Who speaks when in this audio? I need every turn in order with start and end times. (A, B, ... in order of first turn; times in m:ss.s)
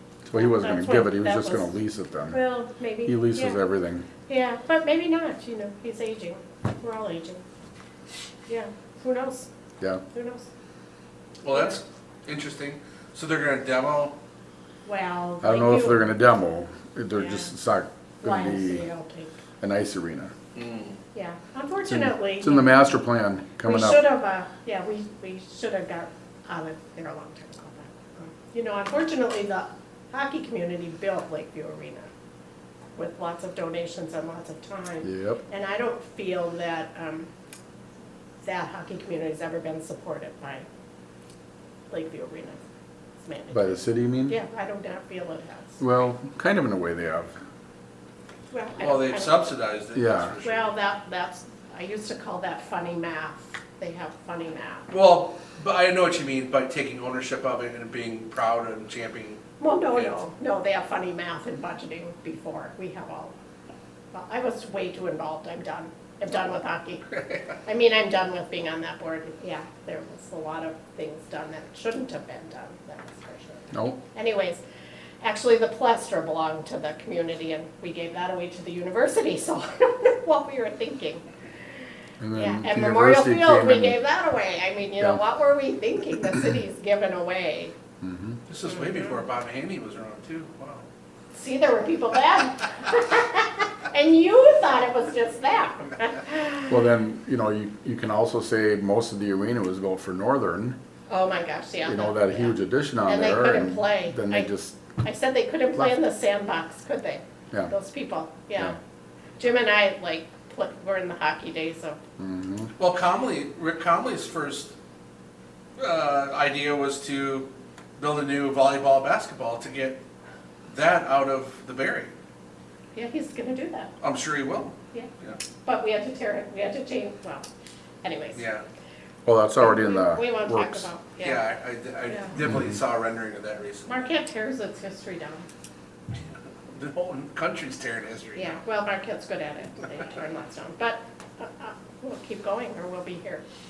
0:00.2-0:02.4 A
0:00.4-0:01.7 B
0:02.3-0:03.6 B
0:03.0-0:04.1 A
0:04.3-0:07.4 B
0:08.5-0:09.5 B
0:10.1-0:10.5 B
0:11.4-0:14.2 C
0:11.5-0:11.8 B
0:14.8-0:16.1 B
0:15.4-0:18.9 A
0:17.2-0:17.5 B
0:18.2-0:19.4 B
0:19.6-0:20.3 A
0:20.6-0:21.0 C
0:21.1-0:22.8 B
0:21.9-0:24.1 A
0:23.6-0:32.1 B
0:33.0-0:37.3 B
0:35.0-0:35.4 A
0:38.4-0:40.7 B
0:41.9-0:42.6 B
0:43.2-0:45.8 B
0:43.5-0:44.4 A
0:45.8-0:47.4 A
0:48.5-0:49.4 B
0:48.8-0:50.7 C
0:49.9-0:50.3 A
0:50.4-0:54.9 B
0:54.9-0:59.4 C
0:59.6-1:03.4 B
1:04.1-1:14.6 B
1:13.7-1:14.0 A
1:15.2-1:21.2 B
1:22.2-1:24.0 A
1:22.4-1:27.7 B
1:28.0-1:28.4 A
1:28.5-1:30.9 C
1:31.3-1:36.7 B
1:36.7-1:40.8 A
1:41.1-1:48.8 B
1:41.8-1:44.8 A
1:49.4-1:52.0 B
1:52.2-1:52.7 A
1:52.8-1:54.7 C
1:55.8-2:00.0 C
2:00.7-2:02.1 C
2:02.9-2:04.0 B
2:04.0-2:05.4 C
2:05.6-2:07.5 B
2:08.0-2:08.4 B
2:08.4-2:08.6 C
2:09.3-2:10.9 A
2:09.6-2:11.5 B
2:11.2-2:14.0 C
2:13.9-2:15.5 B
2:16.7-2:18.6 C
2:18.4-2:23.4 B